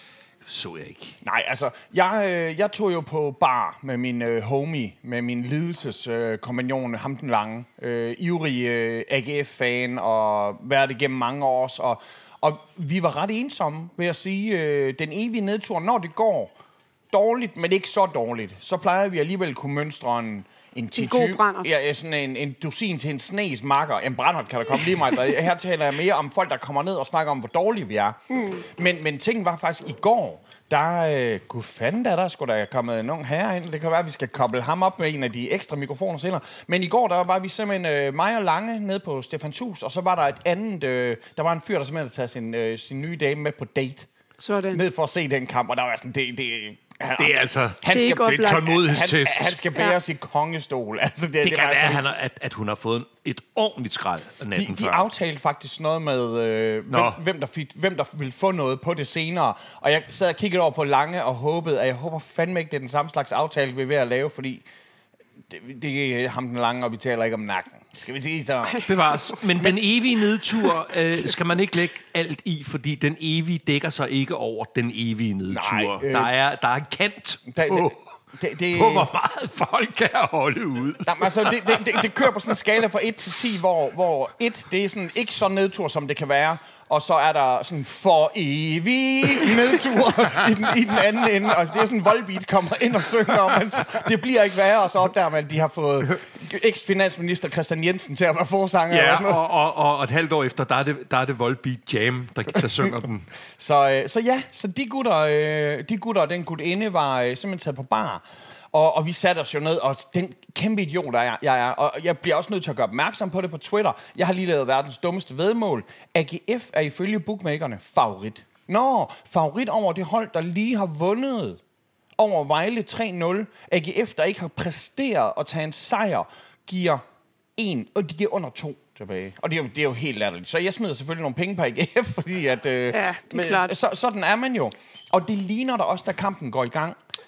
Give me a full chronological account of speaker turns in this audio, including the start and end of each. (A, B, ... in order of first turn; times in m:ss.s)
0:00.4-0:01.2 A
0:01.2-0:16.5 B
0:17.1-0:44.1 B
0:21.0-0:21.7 C
0:44.4-0:44.8 C
0:44.7-0:52.0 B
0:47.2-0:49.6 A
0:47.9-0:48.7 C
0:51.4-0:55.0 A
0:54.5-1:04.6 B
0:56.9-0:57.2 A
1:05.5-1:08.9 B
1:08.8-1:18.0 A
1:15.5-1:16.3 B
1:17.5-1:19.1 B
1:18.7-1:22.1 A
1:21.0-1:39.4 B
1:38.9-1:43.3 A
1:43.6-2:01.6 B
2:02.2-2:07.0 B
2:07.6-2:17.0 B
2:12.9-2:13.7 C